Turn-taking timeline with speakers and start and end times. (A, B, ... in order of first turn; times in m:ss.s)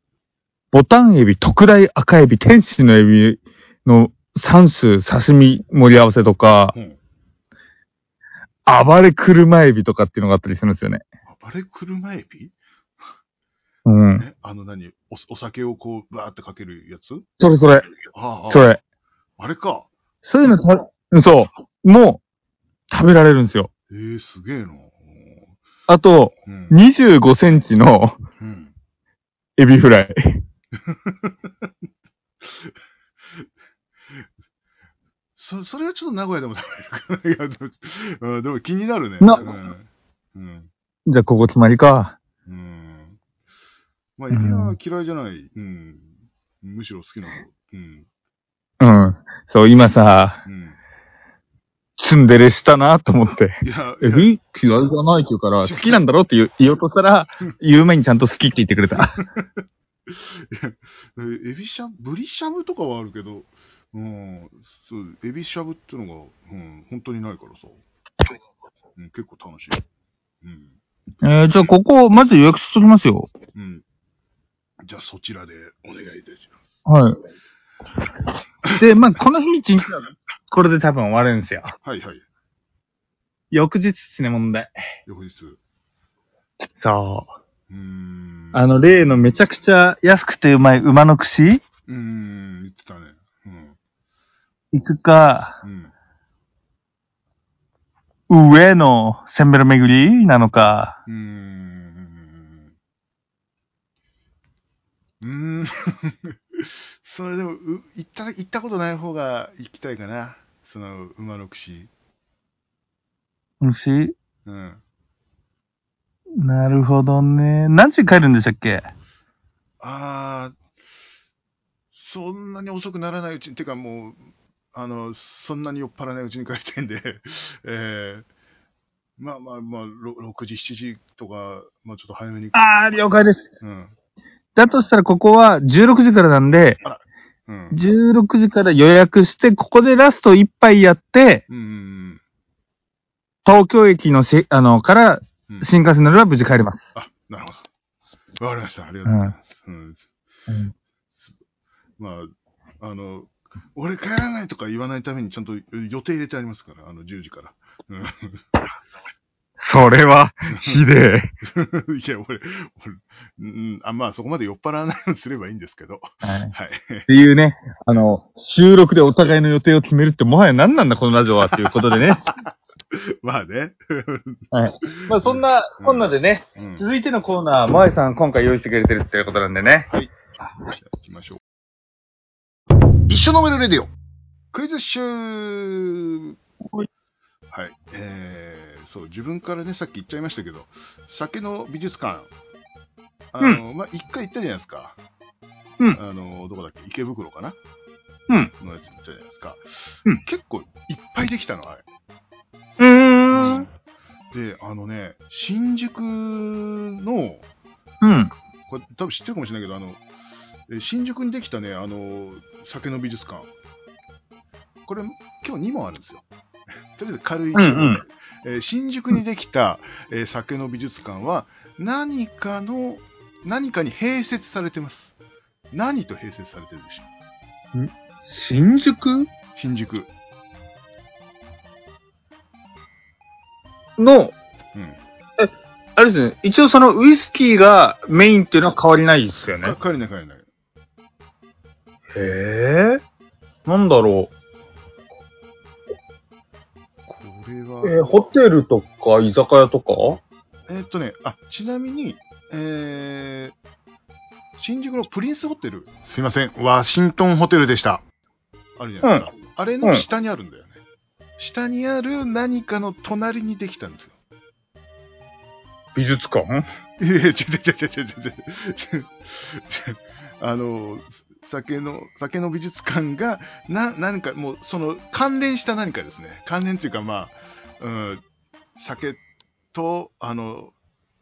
0:00.7-0:06.8 A
0:06.7-0:07.0 B
0:08.6-0:11.0 A
0:11.2-0:12.6 B
0:13.8-0:14.2 A
0:14.1-0:17.2 B
0:17.4-0:17.9 A
0:18.1-0:18.8 B
0:18.5-0:18.8 A
0:19.4-0:19.9 B
0:20.2-0:22.2 A
0:22.9-0:23.7 A
0:23.9-0:25.5 B
0:25.9-0:28.2 A
0:26.4-0:26.8 B
0:28.4-0:28.7 B
0:29.6-0:30.4 A
0:30.9-0:31.7 B
0:32.4-0:32.7 B
0:35.4-0:40.7 B
0:39.2-0:39.5 A
0:41.0-0:42.2 A
0:42.4-0:43.2 B
0:44.2-0:48.0 B
0:44.3-0:44.8 A
0:48.8-0:50.4 A
0:50.4-0:50.8 B
0:52.0-0:59.2 A
0:53.6-0:54.3 B
0:55.6-0:56.0 B
0:59.0-1:07.8 B
1:09.0-1:09.8 B
1:10.4-1:10.8 B
1:11.2-1:13.3 A
1:13.5-1:13.8 B
1:14.8-1:16.6 B
1:16.8-1:17.2 A
1:18.7-1:21.7 A
1:21.8-1:22.2 B
1:23.5-1:24.7 A
1:25.0-1:25.6 B
1:26.7-1:27.3 A
1:27.7-1:29.4 B
1:28.5-1:31.6 A
1:31.9-1:33.8 B
1:34.7-1:35.6 A
1:35.6-1:35.9 B
1:38.3-1:41.0 A
1:41.0-1:42.7 B
1:45.2-1:51.9 B
1:53.6-1:54.1 A
1:54.4-1:54.8 B
1:56.4-1:58.9 A
1:59.8-2:00.6 B
2:01.9-2:08.3 B
2:09.2-2:13.9 B
2:12.5-2:13.5 A
2:14.6-2:16.8 A
2:16.8-2:17.8 B
2:17.7-2:21.4 A
2:21.5-2:22.2 B
2:23.4-2:26.9 A
2:26.9-2:27.7 B
2:28.4-2:30.1 B
2:29.0-2:29.3 A
2:32.0-2:38.6 B
2:39.6-2:41.3 A
2:40.5-2:40.8 B
2:41.4-2:47.1 B
2:46.2-2:46.5 A
2:47.1-2:52.3 A
2:51.6-2:52.3 B
2:52.9-2:56.9 B
2:54.5-2:59.9 A
3:00.8-3:01.4 B
3:03.1-3:03.9 B
3:04.5-3:06.4 B
3:07.5-3:12.3 B
3:13.3-3:15.0 B
3:15.9-3:17.6 B
3:18.6-3:21.8 B
3:22.8-3:23.6 A
3:23.3-3:23.7 B
3:24.3-3:27.4 B
3:28.0-3:28.3 A
3:28.7-3:30.0 B
3:30.7-3:33.5 B
3:34.8-3:36.2 B
3:36.9-3:45.2 B
3:37.5-3:38.0 A
3:45.7-3:47.1 B
3:47.7-3:49.3 A
3:49.5-3:50.1 B
3:54.0-3:54.3 A
3:54.7-3:55.0 B
3:55.4-3:59.8 A
3:59.6-4:00.5 B
4:02.1-4:03.0 A
4:03.6-4:04.3 A
4:07.1-4:08.3 B
4:07.8-4:10.2 A
4:10.7-4:13.6 B
4:14.6-4:18.0 B
4:18.8-4:20.8 B
4:19.0-4:19.3 A
4:21.4-4:24.2 B
4:25.9-4:26.6 A
4:27.0-4:38.2 B
4:38.8-4:39.2 B
4:39.7-4:40.7 B